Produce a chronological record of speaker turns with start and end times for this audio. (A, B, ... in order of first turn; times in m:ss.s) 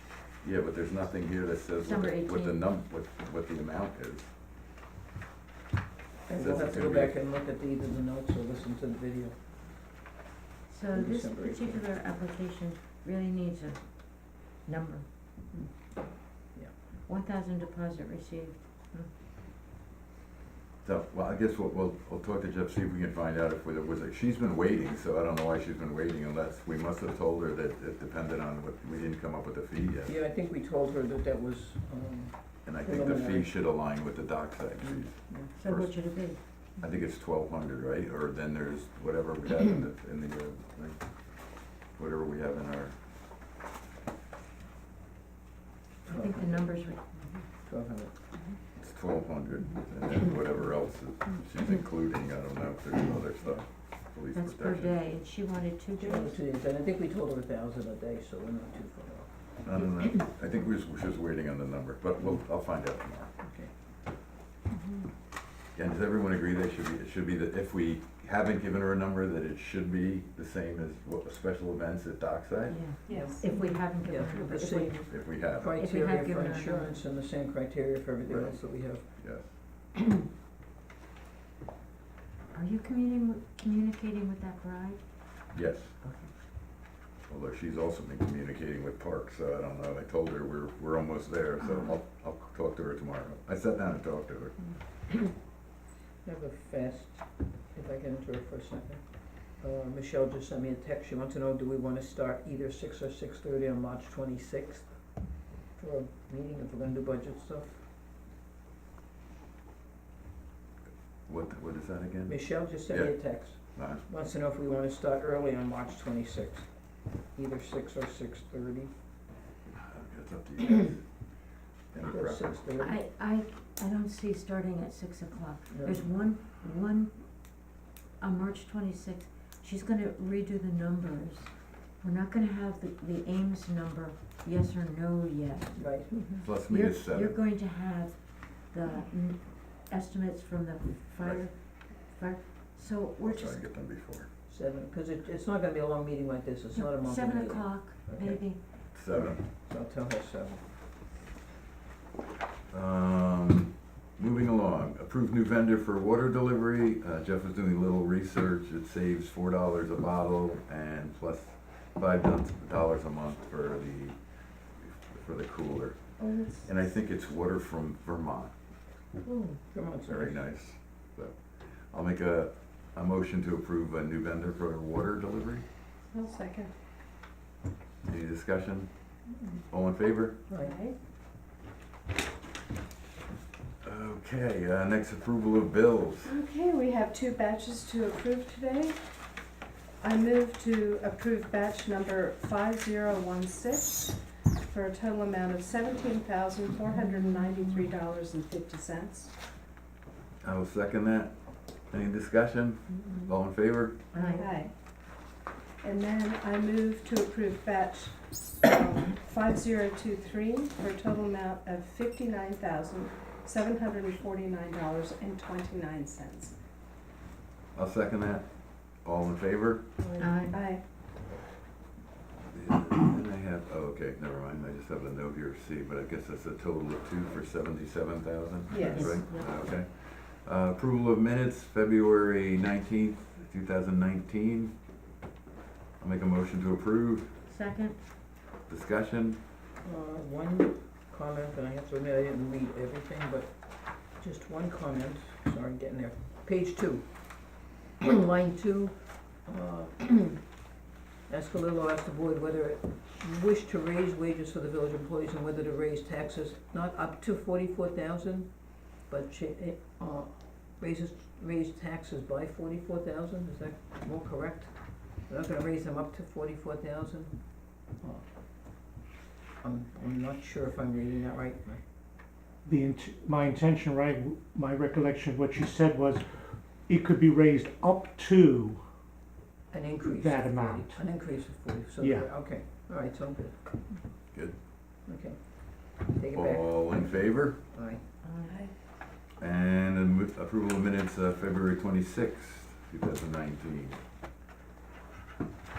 0:00.4-0:04.3 A
0:01.8-0:02.6 B
0:06.3-0:09.4 C
0:06.4-0:07.2 A
0:10.7-0:15.0 B
0:10.9-0:11.8 C
0:17.1-0:18.6 B
0:20.8-0:30.1 A
0:30.1-0:33.5 C
0:32.7-0:36.0 A
0:34.8-0:35.5 C
0:35.6-0:36.4 B
0:36.8-0:41.1 A
0:41.9-0:43.0 A
0:46.1-0:46.8 C
0:46.1-0:47.0 B
0:47.3-0:48.1 C
0:48.8-0:54.9 A
0:54.3-0:56.4 B
0:56.0-0:59.5 C
0:59.6-1:03.3 A
1:03.4-1:03.7 C
1:05.8-1:12.8 A
1:12.7-1:15.0 B
1:13.1-1:13.7 D
1:13.1-1:19.1 C
1:15.1-1:15.7 A
1:15.6-1:17.0 B
1:18.3-1:19.6 A
1:22.5-1:25.0 B
1:25.5-1:26.0 A
1:26.0-1:26.3 B
1:27.3-1:34.6 A
1:31.6-1:32.0 B
1:36.2-1:44.9 C
1:45.8-1:47.8 C
1:51.3-1:54.0 A
1:52.3-1:56.7 C
1:57.3-1:58.9 C
1:59.7-2:01.1 A
2:01.9-2:02.6 A
2:02.0-2:03.0 C
2:02.8-2:07.1 B
2:05.7-2:06.0 C
2:08.2-2:15.7 B
2:15.8-2:16.5 C
2:16.4-2:17.4 A
2:16.7-2:23.6 B
2:23.2-2:24.3 A
2:24.5-2:30.6 C
2:26.8-2:28.6 B
2:28.9-2:29.4 A
2:32.7-2:44.2 A
2:44.8-2:46.0 A
2:46.2-2:46.7 D
2:46.6-2:48.5 A
2:49.2-2:50.4 C
2:50.1-2:55.6 A
2:56.1-2:56.7 D
2:58.1-2:58.9 A
2:59.7-3:00.4 A
3:00.5-3:00.8 C
3:00.6-3:01.0 D
3:03.8-3:06.4 A
3:06.2-3:09.0 D
3:10.0-3:19.3 D
3:20.4-3:24.0 A
3:23.0-3:23.3 B
3:24.1-3:24.5 B
3:24.1-3:24.7 D
3:25.8-3:36.6 D
3:37.8-3:39.9 A
3:40.0-3:40.8 D
3:40.2-3:40.6 B
3:42.5-3:54.7 A
3:48.7-3:49.2 D
3:48.9-3:49.5 B
3:56.0-3:57.3 A
3:57.5-3:58.0 B
3:58.7-3:59.4 A
3:59.8-4:03.5 C
4:04.1-4:10.4 C
4:11.3-4:28.2 C
4:29.6-4:31.8 C
4:32.6-4:38.8 E
4:39.7-4:43.6 C
4:40.0-4:41.0 E
4:42.0-4:42.3 E
4:45.1-4:47.2 C
4:46.3-4:47.6 A
4:47.7-4:48.0 C
4:48.2-4:48.6 B
4:48.5-4:48.7 D
4:49.4-4:54.0 A